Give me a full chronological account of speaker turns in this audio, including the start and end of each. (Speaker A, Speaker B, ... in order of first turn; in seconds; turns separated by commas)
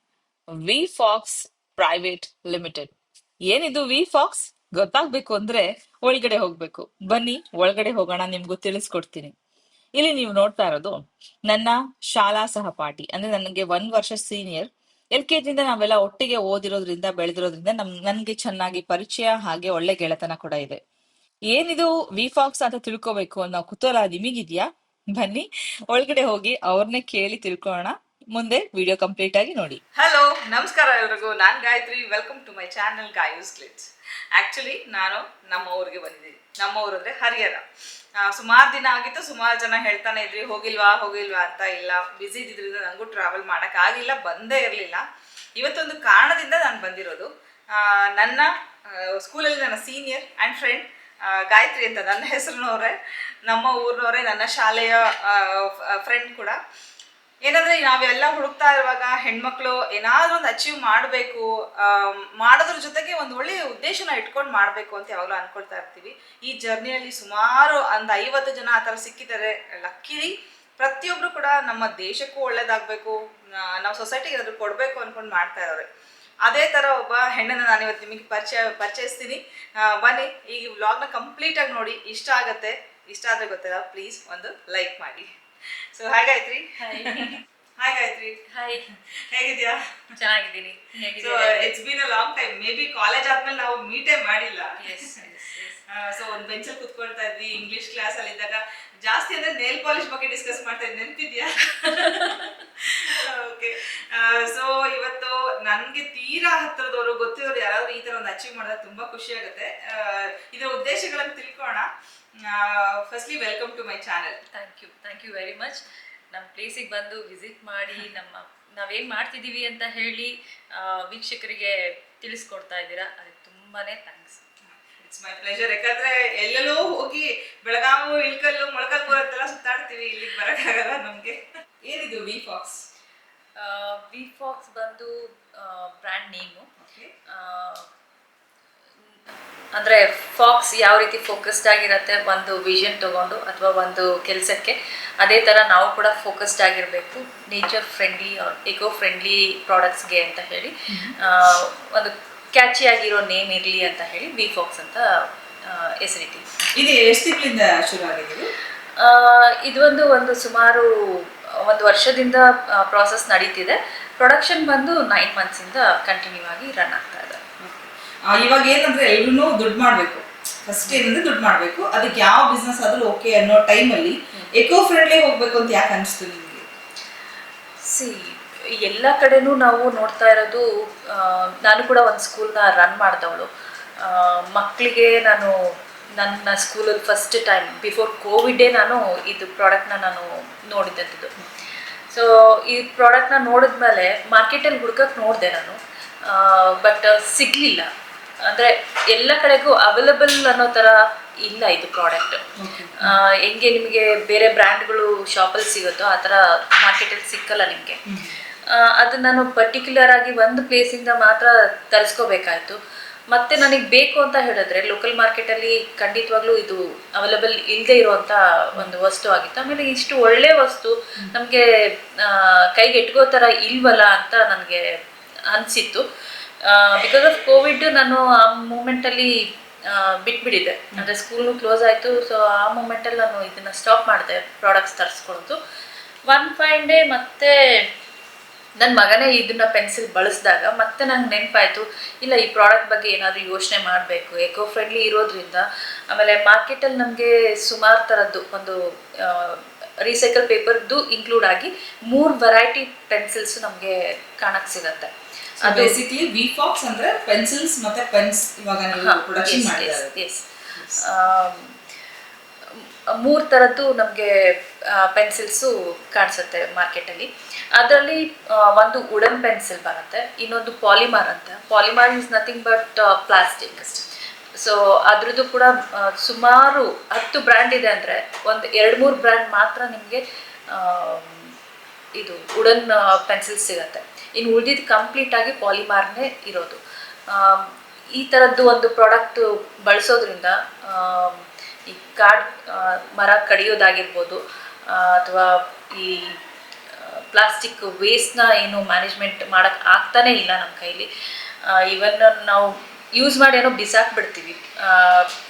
Speaker A: 0.6-2.9, Speaker A: 3.5-9.3, Speaker A: 10.0-11.0, Speaker A: 11.5-20.8, Speaker A: 21.5-37.6, Speaker A: 38.2-45.0, Speaker A: 45.5-56.6, Speaker A: 57.4-75.9, Speaker A: 76.4-90.0, Speaker B: 86.8-87.4, Speaker B: 88.5-89.0, Speaker B: 90.2-91.7, Speaker A: 91.2-95.2, Speaker B: 94.8-95.8, Speaker A: 95.9-114.4, Speaker B: 102.2-102.5, Speaker B: 114.5-124.4, Speaker A: 124.7-132.8, Speaker B: 133.6-136.7, Speaker A: 136.8-137.1, Speaker B: 137.3-137.9, Speaker B: 139.8-155.1, Speaker A: 150.9-151.1, Speaker B: 155.6-156.4, Speaker A: 156.8-158.5, Speaker B: 158.9-167.4, Speaker A: 167.6-176.7, Speaker B: 177.8-183.5, Speaker B: 184.0-185.5, Speaker B: 186.2-191.3, Speaker B: 192.1-197.9, Speaker B: 198.4-202.4, Speaker A: 202.6-203.2, Speaker B: 202.9-208.0, Speaker A: 208.1-208.4, Speaker B: 208.7-212.8, Speaker B: 213.3-221.6, Speaker B: 222.2-224.9, Speaker B: 225.5-226.0, Speaker B: 226.6-229.3, Speaker B: 229.8-235.6, Speaker B: 236.3-237.9, Speaker B: 238.8-255.1, Speaker A: 255.6-260.1, Speaker B: 255.6-256.0, Speaker B: 258.9-261.8, Speaker A: 260.8-261.0, Speaker B: 262.7-281.6, Speaker B: 282.1-296.4, Speaker B: 296.9-301.1, Speaker B: 301.6-305.3